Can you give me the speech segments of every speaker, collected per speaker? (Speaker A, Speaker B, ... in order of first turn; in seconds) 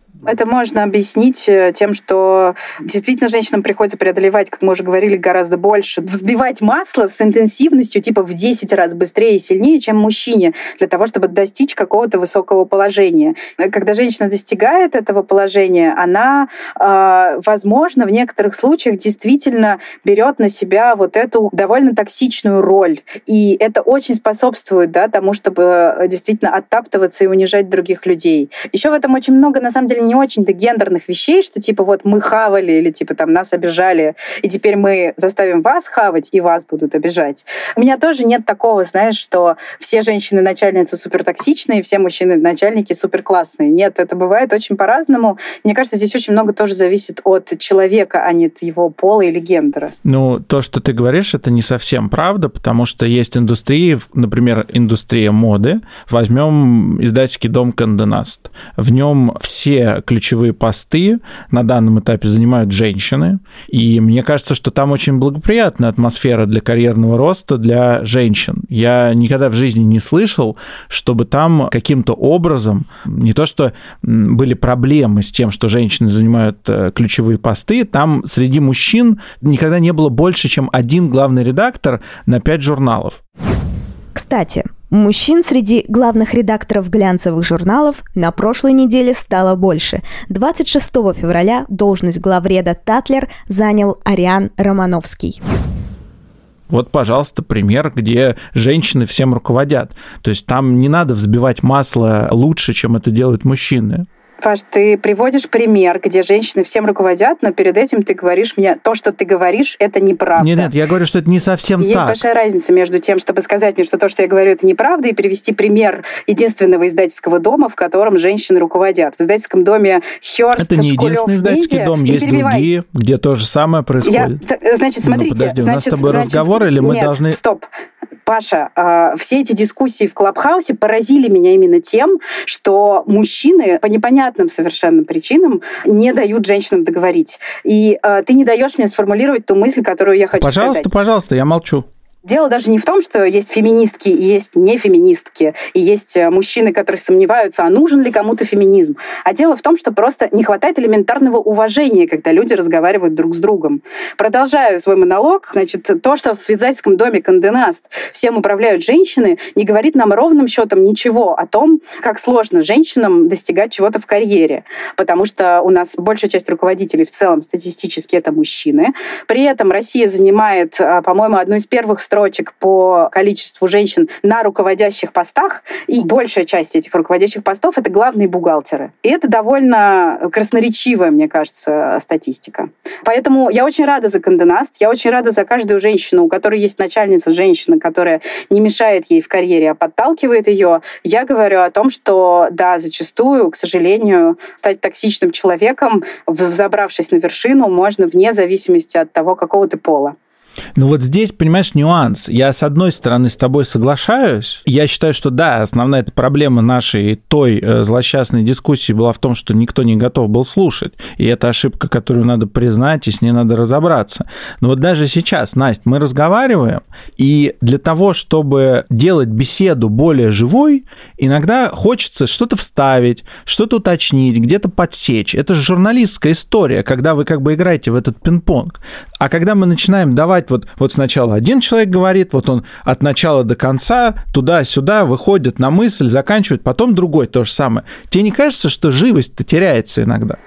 Speaker A: 0.2-49.9, 104.4-110.7, 111.8-122.7, 124.0-127.7, 128.3-140.9, 142.2-200.2
Speaker B: 50.0-83.2, 96.7-104.1, 110.4-112.2, 120.6-124.4, 125.0-127.4, 140.4-141.9, 200.8-240.4
Speaker C: 84.1-95.4